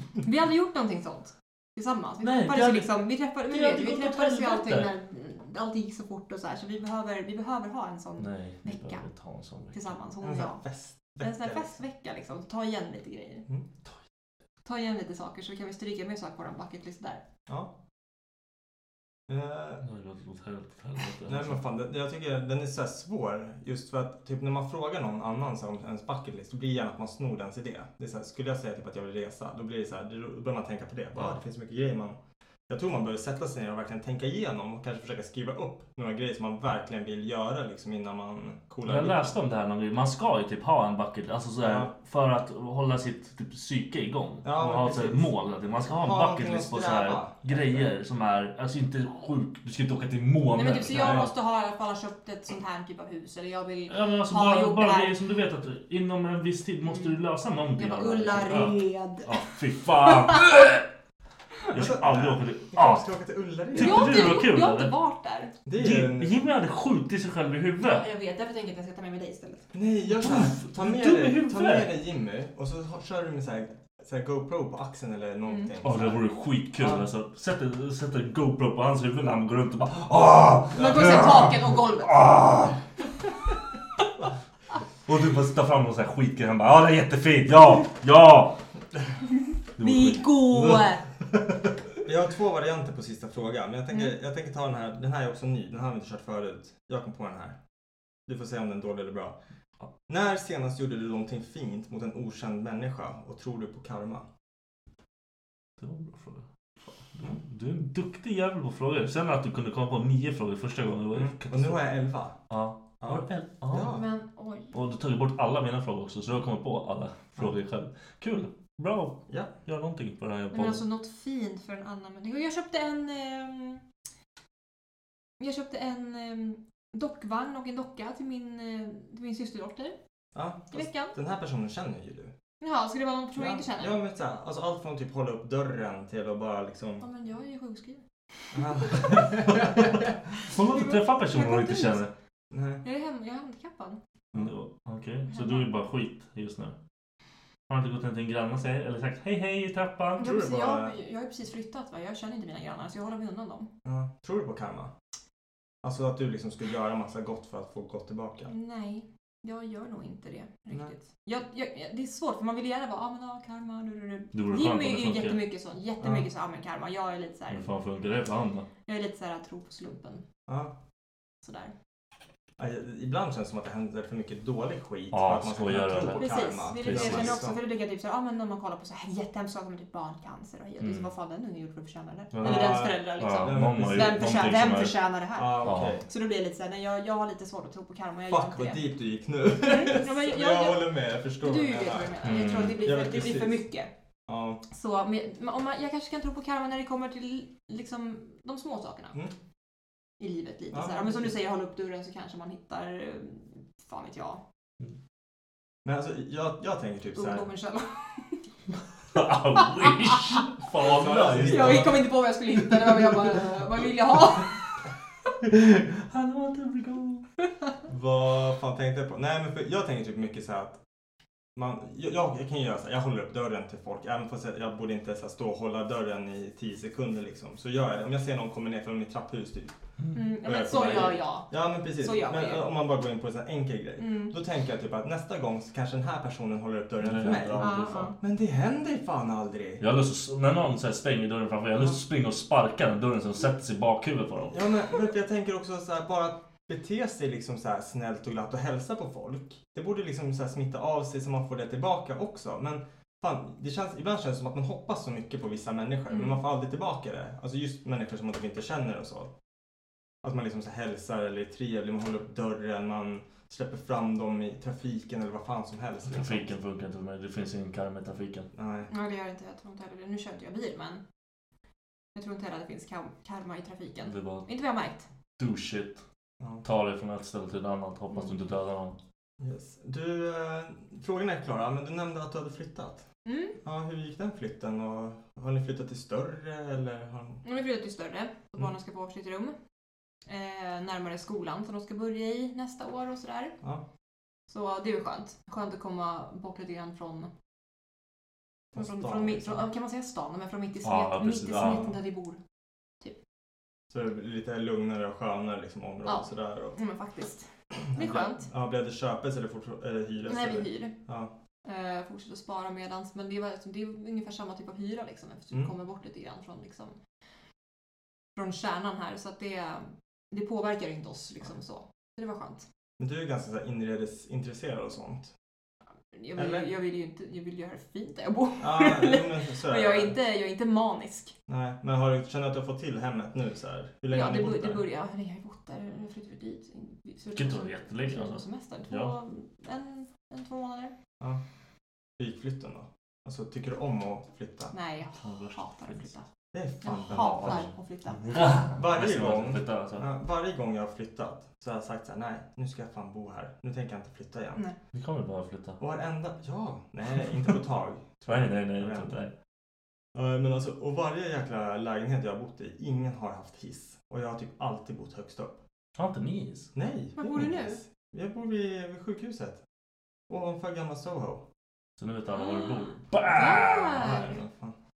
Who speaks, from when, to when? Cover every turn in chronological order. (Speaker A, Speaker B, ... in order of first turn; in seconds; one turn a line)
Speaker A: 0.2-9.1
Speaker B: 2.2-4.9
Speaker B: 8.2-9.9
Speaker A: 9.7-10.6
Speaker C: 10.2-11.7
Speaker A: 11.2-13.4
Speaker A: 14.6-17.2
Speaker C: 19.3-19.8
Speaker B: 19.8-21.6
Speaker C: 21.3-32.2
Speaker C: 32.7-39.4
Speaker B: 38.9-51.3
Speaker C: 41.6-41.9
Speaker C: 44.4-45.3
Speaker C: 45.9-47.9
Speaker A: 50.5-55.1
Speaker C: 50.9-51.3
Speaker B: 53.9-60.9
Speaker A: 57.8-59.4
Speaker B: 61.7-63.1
Speaker C: 61.7-64.4
Speaker B: 63.8-64.9
Speaker A: 63.8-65.5
Speaker C: 65.7-66.4
Speaker B: 65.8-68.0
Speaker A: 67.8-69.7
Speaker C: 69.7-77.1
Speaker B: 70.2-71.9
Speaker A: 75.5-75.7
Speaker B: 75.8-82.8
Speaker C: 80.8-81.5
Speaker A: 80.8-82.2
Speaker B: 85.1-88.6
Speaker B: 89.8-91.0
Speaker A: 89.8-91.0
Speaker C: 92.0-97.6
Speaker C: 98.3-99.4
Speaker C: 100.1-104.3
Speaker B: 105.8-111.8
Speaker C: 111.1-112.4
Speaker B: 112.5-114.0
Speaker C: 113.0-114.0
Speaker A: 113.9-114.8
Speaker B: 114.7-120.8
Speaker A: 120.5-123.8
Speaker A: 125.4-130.0
Speaker C: 130.3-132.3
Speaker A: 130.7-131.2
Speaker A: 132.6-134.0
Speaker C: 133.4-137.1
Speaker A: 137.0-138.0
Speaker C: 138.5-139.7
Speaker A: 139.0-139.2
Speaker B: 139.5-139.9
Speaker B: 140.4-142.1
Speaker A: 140.5-142.0
Speaker C: 142.5-142.8
Speaker A: 142.8-144.0
Speaker B: 144.3-146.8
Speaker A: 145.3-145.7
Speaker B: 147.7-150.3
Speaker C: 150.2-150.9
Speaker A: 150.2-153.7
Speaker C: 153.8-154.9
Speaker C: 155.8-158.5
Speaker A: 158.4-167.7
Speaker B: 164.3-165.4
Speaker C: 166.0-166.3
Speaker B: 167.5-168.7
Speaker A: 168.9-170.2
Speaker C: 170.5-170.7
Speaker A: 171.4-171.7
Speaker C: 172.6-177.6
Speaker B: 175.1-177.4
Speaker A: 176.1-188.9
Speaker B: 180.8-181.1
Speaker B: 182.3-185.0
Speaker C: 182.4-184.6
Speaker C: 185.3-186.1
Speaker B: 185.6-186.0
Speaker C: 188.3-193.7
Speaker A: 189.6-193.9
Speaker B: 192.2-192.8
Speaker C: 194.3-194.6
Speaker A: 194.7-199.2
Speaker A: 200.2-204.4
Speaker C: 200.7-201.4
Speaker C: 205.8-207.5
Speaker A: 207.2-208.4
Speaker B: 209.1-212.1
Speaker A: 209.8-210.4
Speaker C: 210.9-212.1
Speaker A: 211.4-214.5
Speaker B: 215.4-217.3
Speaker C: 217.9-220.8
Speaker C: 221.6-229.8
Speaker A: 230.1-232.7
Speaker C: 230.4-239.8
Speaker A: 234.0-234.3
Speaker B: 237.0-238.1
Speaker A: 237.6-238.2
Speaker B: 239.8-244.6
Speaker C: 244.5-259.3
Speaker A: 256.1-256.4
Speaker C: 260.2-266.5
Speaker B: 266.1-268.5
Speaker C: 268.5-268.9
Speaker A: 268.9-271.0
Speaker A: 272.1-275.1
Speaker B: 274.1-274.5
Speaker B: 275.4-276.0
Speaker B: 276.6-279.0
Speaker C: 279.4-283.1
Speaker A: 283.2-283.6
Speaker C: 283.6-287.4
Speaker A: 287.4-289.6
Speaker A: 290.3-293.6
Speaker A: 294.5-297.3
Speaker C: 298.7-299.7
Speaker A: 298.8-302.4
Speaker B: 300.8-301.9
Speaker C: 303.9-306.8
Speaker A: 306.1-308.5
Speaker C: 307.9-311.3
Speaker A: 310.3-310.9
Speaker A: 311.6-317.0
Speaker A: 318.4-322.6
Speaker C: 323.0-325.3
Speaker A: 326.1-331.3
Speaker C: 326.4-326.7
Speaker C: 328.6-330.2
Speaker C: 331.5-334.9
Speaker A: 334.1-340.9
Speaker B: 337.4-339.1
Speaker C: 342.2-344.7
Speaker A: 344.7-346.2
Speaker B: 345.2-346.1
Speaker C: 346.5-347.7
Speaker A: 346.8-348.4
Speaker B: 347.1-350.1
Speaker C: 348.7-354.6
Speaker B: 354.9-355.8
Speaker C: 355.8-359.3
Speaker B: 358.3-359.3
Speaker C: 360.1-365.6
Speaker B: 366.0-366.7
Speaker C: 366.8-369.6
Speaker A: 367.2-367.8
Speaker C: 370.3-371.4
Speaker B: 372.0-374.1
Speaker A: 372.4-374.4
Speaker C: 374.0-374.8